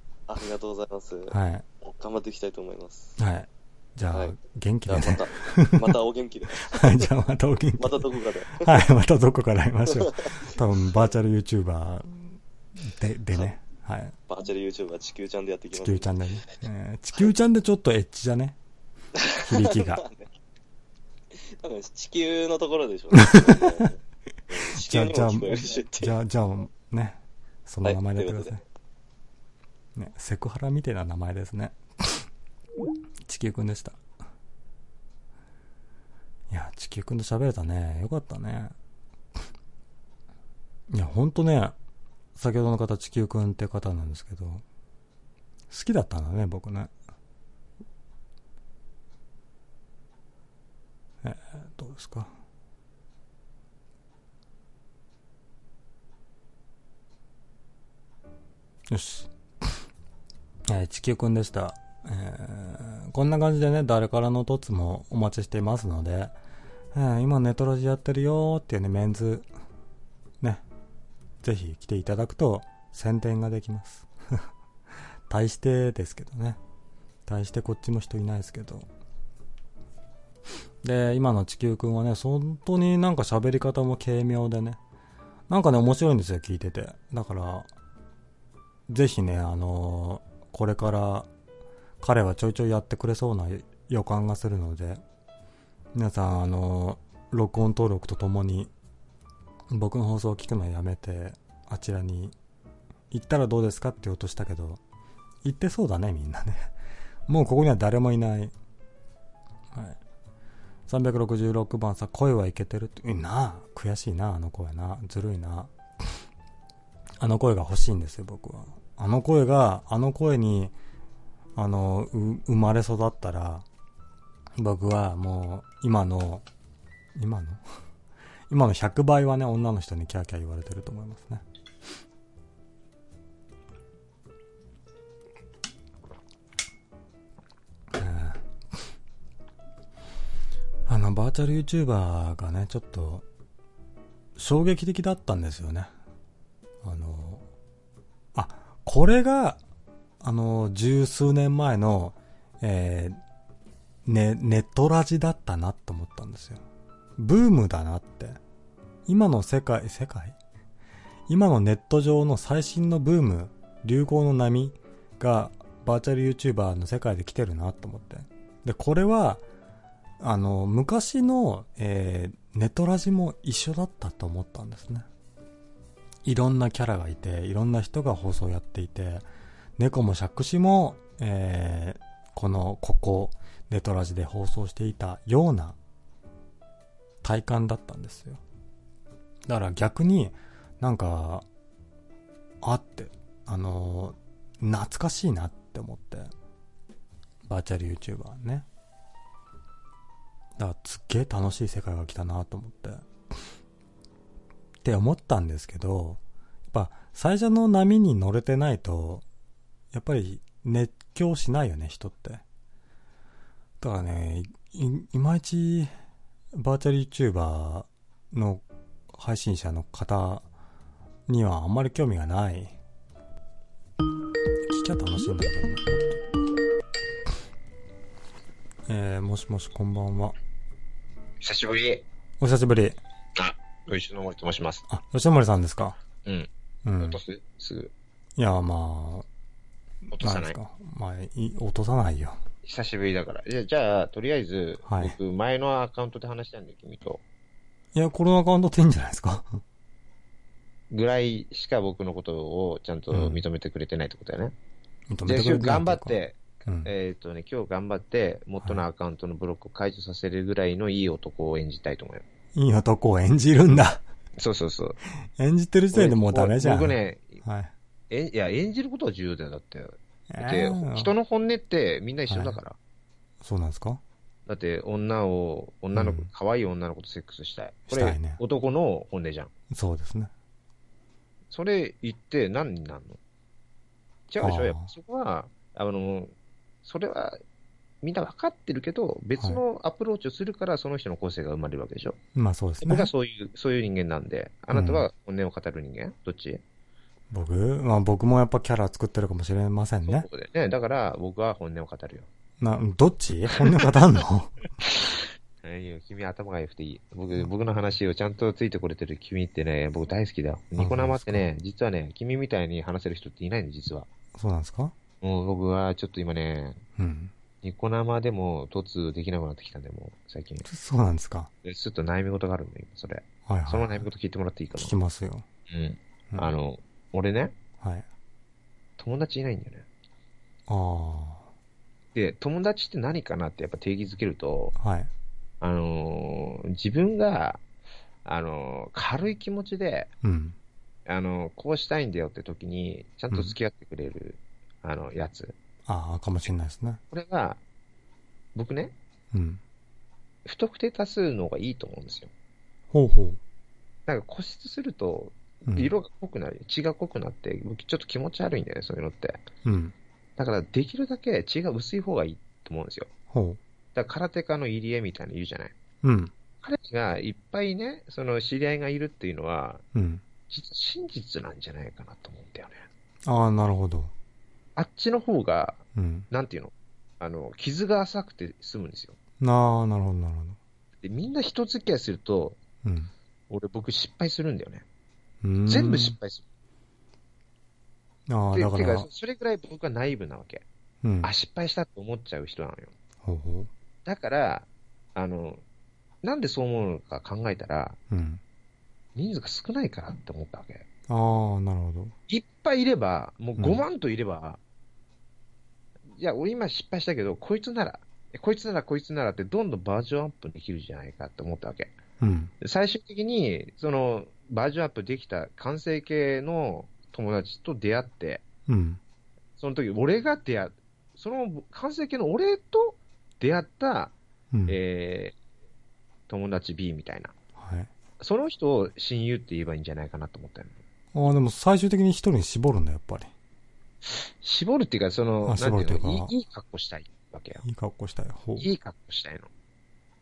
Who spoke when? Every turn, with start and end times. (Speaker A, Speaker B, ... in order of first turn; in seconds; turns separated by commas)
Speaker A: 0.3-3.2, Speaker B: 1.3-1.6, Speaker B: 3.2-6.0, Speaker A: 4.1-7.1, Speaker B: 6.6-14.2, Speaker A: 7.8-8.9, Speaker A: 10.0-11.1, Speaker A: 14.3-16.1, Speaker B: 15.7-18.6, Speaker A: 19.1-20.3, Speaker B: 19.4-20.1, Speaker A: 21.4-24.0, Speaker B: 23.1-23.9, Speaker A: 24.5-26.1, Speaker B: 24.8-28.6, Speaker A: 27.8-28.6, Speaker B: 30.0-32.3, Speaker B: 33.3-34.0, Speaker B: 36.5-38.7, Speaker B: 40.9-41.8, Speaker B: 42.4-44.6, Speaker B: 45.7-46.9, Speaker B: 51.2-52.3, Speaker B: 58.9-59.3, Speaker B: 60.7-66.3, Speaker B: 66.9-69.5, Speaker B: 71.4-74.4, Speaker B: 75.3-76.6, Speaker B: 77.3-78.9, Speaker B: 80.8-84.8, Speaker B: 85.5-87.7, Speaker B: 88.9-91.3, Speaker B: 92.0-95.0, Speaker B: 96.0-98.7, Speaker B: 99.7-102.3, Speaker B: 103.1-104.8, Speaker B: 105.4-106.7, Speaker B: 107.3-108.5, Speaker B: 109.7-110.0, Speaker B: 110.9-115.7, Speaker B: 117.2-120.7, Speaker B: 121.6-123.7, Speaker B: 124.6-126.5, Speaker B: 127.2-127.6, Speaker B: 128.5-131.4, Speaker B: 137.9-138.4, Speaker B: 140.9-143.2, Speaker B: 144.4-145.9, Speaker B: 146.8-147.4, Speaker B: 148.3-149.6, Speaker B: 150.2-153.2, Speaker B: 154.1-156.6, Speaker B: 157.2-158.4, Speaker B: 159.1-160.4, Speaker B: 161.3-169.4, Speaker B: 170.2-175.1, Speaker B: 176.2-179.2, Speaker B: 179.8-185.8, Speaker B: 187.2-188.4, Speaker B: 189.5-191.4, Speaker B: 192.6-196.3, Speaker B: 197.5-198.7, Speaker B: 200.6-203.1, Speaker B: 204.8-206.2, Speaker B: 206.7-209.2, Speaker B: 209.9-212.4, Speaker B: 213.8-215.9, Speaker B: 216.5-220.4, Speaker B: 221.3-222.8, Speaker B: 224.7-226.1, Speaker B: 228.9-230.3, Speaker C: 231.4-232.1, Speaker B: 232.4-233.0, Speaker C: 233.4-234.8, Speaker B: 234.9-236.0, Speaker B: 236.8-237.2, Speaker C: 237.0-237.9, Speaker B: 238.4-239.3, Speaker C: 240.1-240.6, Speaker B: 240.2-242.4, Speaker C: 242.7-247.2, Speaker B: 244.9-245.2, Speaker B: 247.9-249.6, Speaker C: 250.9-254.5, Speaker B: 253.1-253.4, Speaker B: 255.1-256.9, Speaker C: 255.3-262.2, Speaker B: 262.6-264.0, Speaker C: 264.4-265.0, Speaker B: 265.4-267.7, Speaker C: 265.9-267.4, Speaker C: 268.1-272.8, Speaker B: 270.3-271.1, Speaker B: 272.3-272.6, Speaker B: 273.4-274.0, Speaker C: 274.5-279.5, Speaker B: 275.9-276.3, Speaker B: 277.9-278.4, Speaker B: 279.7-280.3, Speaker C: 281.5-283.2, Speaker C: 284.3-286.3, Speaker B: 284.4-284.9, Speaker C: 286.8-287.4, Speaker C: 288.0-292.2, Speaker B: 292.4-293.1, Speaker C: 292.8-296.6, Speaker B: 294.7-295.1, Speaker B: 297.3-300.3, Speaker C: 300.1-302.3, Speaker B: 302.6-304.6, Speaker C: 304.8-314.1, Speaker B: 310.8-311.5, Speaker B: 314.4-314.9, Speaker C: 315.2-316.8, Speaker B: 317.0-317.3, Speaker C: 317.6-320.7, Speaker B: 320.7-321.5, Speaker C: 321.6-324.9, Speaker B: 323.5-324.1, Speaker B: 324.8-325.4, Speaker C: 325.7-327.6, Speaker C: 329.0-329.9, Speaker B: 330.7-331.5, Speaker C: 332.1-334.8, Speaker B: 334.8-335.1, Speaker C: 335.6-337.6, Speaker C: 338.2-340.1, Speaker B: 340.2-340.6, Speaker C: 341.1-345.6, Speaker B: 343.3-343.6, Speaker B: 345.9-347.0, Speaker C: 347.1-347.6, Speaker C: 348.6-348.9, Speaker B: 349.3-349.6, Speaker C: 350.4-352.3, Speaker B: 352.9-353.4, Speaker C: 354.1-359.4, Speaker B: 355.7-355.9, Speaker B: 359.6-359.9, Speaker C: 360.4-363.1, Speaker B: 363.3-363.6, Speaker C: 363.9-365.7, Speaker B: 366.0-366.3, Speaker C: 366.6-369.8, Speaker B: 369.9-370.2, Speaker C: 370.5-372.8, Speaker B: 373.3-374.1, Speaker C: 374.8-379.2, Speaker B: 376.0-376.3, Speaker B: 379.4-380.6, Speaker C: 381.0-382.6, Speaker B: 382.8-383.1, Speaker C: 383.5-384.9, Speaker B: 385.4-386.2, Speaker C: 385.7-386.4, Speaker B: 388.3-389.1, Speaker C: 388.5-390.6, Speaker B: 391.0-391.3, Speaker C: 391.2-392.9, Speaker B: 393.2-393.7, Speaker C: 394.1-395.6, Speaker C: 396.2-398.0, Speaker B: 398.1-398.4, Speaker C: 399.1-400.9, Speaker B: 401.1-402.1, Speaker C: 402.3-404.6, Speaker B: 403.6-403.8, Speaker C: 406.2-411.9, Speaker B: 412.2-412.5, Speaker C: 412.6-418.4, Speaker B: 418.7-419.0, Speaker C: 419.6-424.1, Speaker B: 424.5-424.8, Speaker C: 424.7-425.4, Speaker C: 426.3-427.3, Speaker B: 427.6-427.9, Speaker C: 428.2-430.7, Speaker B: 431.1-433.3, Speaker C: 434.0-437.6, Speaker B: 435.4-436.3, Speaker B: 437.6-438.7, Speaker C: 438.6-439.5